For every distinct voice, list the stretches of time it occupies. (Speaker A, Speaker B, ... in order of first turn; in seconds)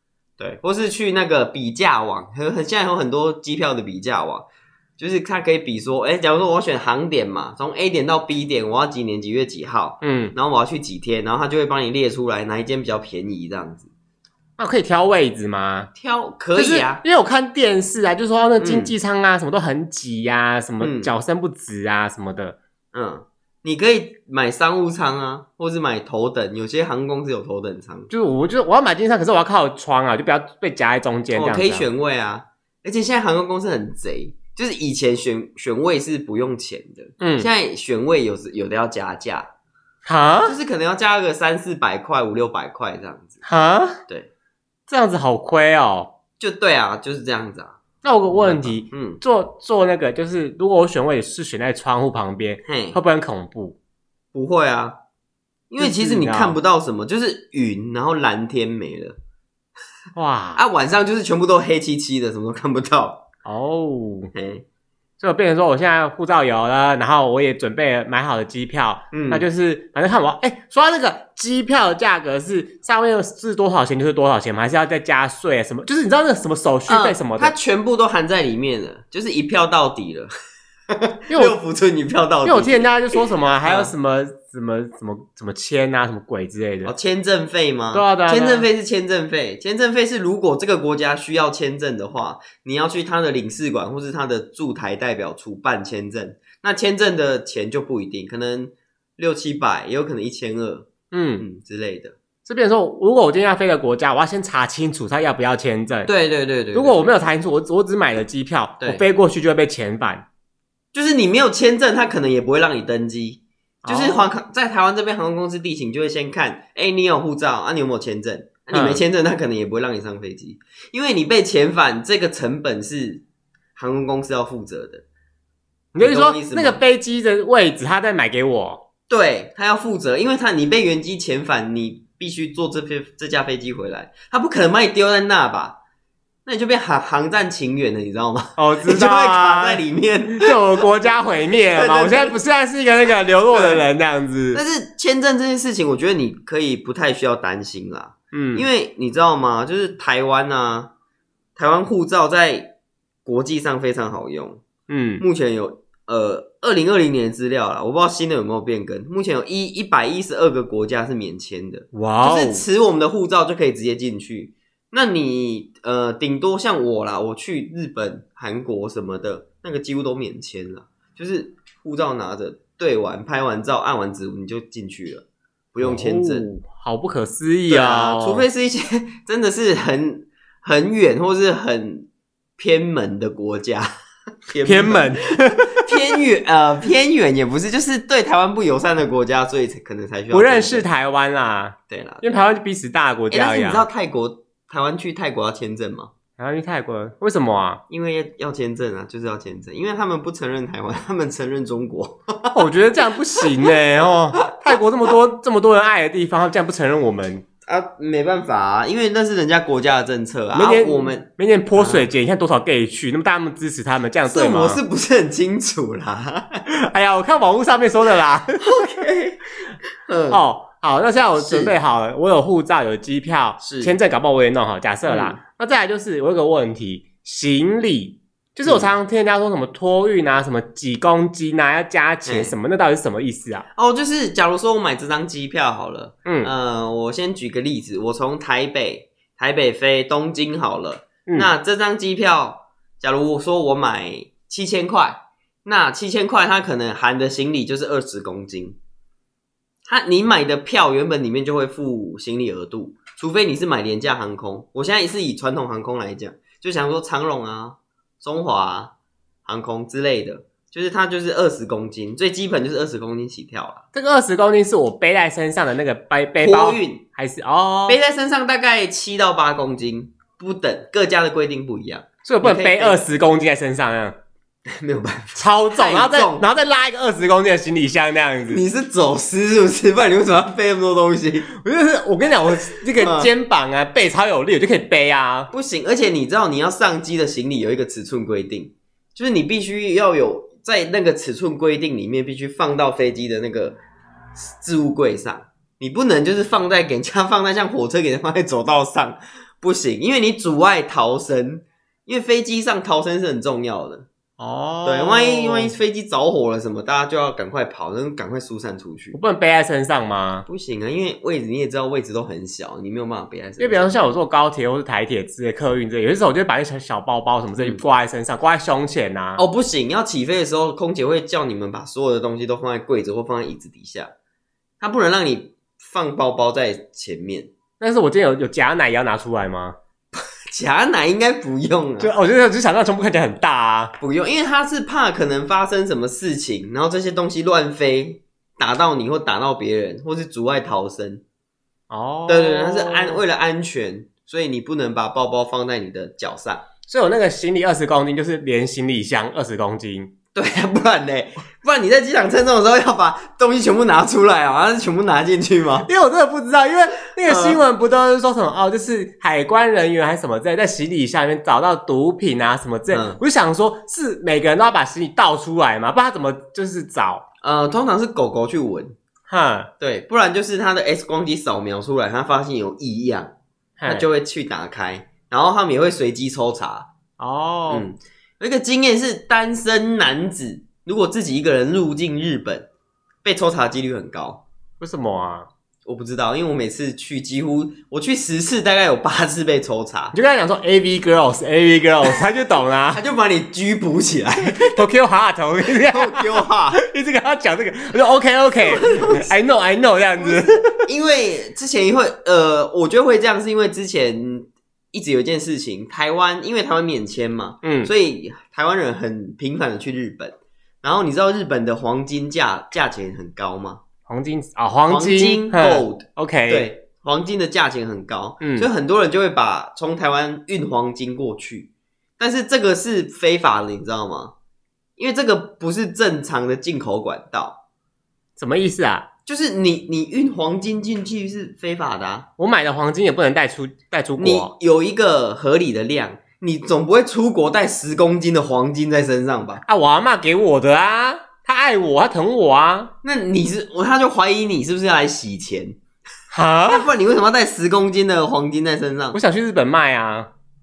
Speaker A: 0.4-4.5, 5.0-13.9, 15.9-17.0, 18.6-18.9, 20.8-21.1, 22.9-28.1, 31.3-39.5, 40.5-43.4, 46.4-47.8, 48.3-49.2, 52.6-53.0, 54.3-55.0, 55.7-59.2, 60.5-63.2, 64.3-64.6, 69.1-69.5, 76.9-80.3, 80.9-82.9, 83.6-83.9, 86.8-100.9, 101.4-102.1, 106.0-107.0, 108.8-109.0, 110.9-123.2, 123.8-125.0, 126.0-126.8, 129.1-135.8, 136.4-140.6, 141.7-142.4, 143.5-143.8, 144.5-150.9, 151.6-152.7, 153.2-154.6, 155.2-176.5, 177.7-182.1, 182.6-183.9, 184.5-190.8, 191.9-192.2, 193.3-196.1, 197.9-202.6, 203.4-203.7, 207.7-212.1, 214.3-216.6, 218.6-219.4, 220.1-220.4, 221.4-221.7, 223.6-223.9, 225.1-225.4, 228.6-228.9, 232.2-232.5, 233.7-248.8, 249.8-258.9, 259.4-263.8, 266.4-267.0, 267.9-273.1, 274.7-276.4, 278.5-281.5, 282.9-283.3, 285.5-293.8, 294.3-304.1, 304.8-309.2, 310.5-313.9, 317.6-317.8, 319.4-324.1, 324.8-327.5, 330.1-332.1, 334.0-341.2, 342.3-346.6, 350.3-355.9, 357.2-357.6, 362.9-363.2, 367.4-368.9, 369.8-373.3, 373.9-376.9, 377.7-382.7, 383.2-384.4, 385.8-390.1, 392.9-394.9, 395.7-396.8, 398.6-399.3, 400.2-413.8, 414.9-424.3, 425.0-427.6, 429.2-432.3, 434.2-439.6, 443.0-445.8, 446.7-449.2
Speaker B: 10.0-10.3, 14.6-15.9, 16.5-22.6, 28.1-31.9, 37.2-37.5, 40.0-40.5, 43.4-44.0, 44.9-46.1, 48.0-53.8, 55.8-56.6, 60.1-60.6, 63.4-64.3, 65.2-77.5, 81.3-81.5, 82.4-86.9, 87.9-88.7, 101.1-101.4, 102.5-106.1, 106.7-110.2, 113.8-114.3, 118.7-119.0, 125.9-128.8, 138.6-144.6, 148.3-148.7, 154.9-155.2, 161.9-162.6, 175.8-178.4, 184.6-186.2, 190.3-193.9, 196.4-197.8, 202.5-207.4, 210.5-214.8, 216.7-218.9, 220.3-233.7, 236.2-236.5, 241.2-241.5, 263.9-268.0, 272.2-274.1, 275.4-278.6, 281.5-285.5, 304.4-305.7, 309.1-310.4, 313.6-319.4, 327.8-329.8, 332.0-333.9, 341.9-343.2, 346.9-350.1, 355.9-367.2, 369.3-369.7, 373.8-374.1, 377.2-377.9, 384.8-385.5, 390.1-393.0, 394.6-400.8, 407.6-407.9, 414.1-416.7, 418.4-418.7, 428.4-429.1, 432.4-434.5, 439.6-442.9, 446.3-446.9, 449.1-450.3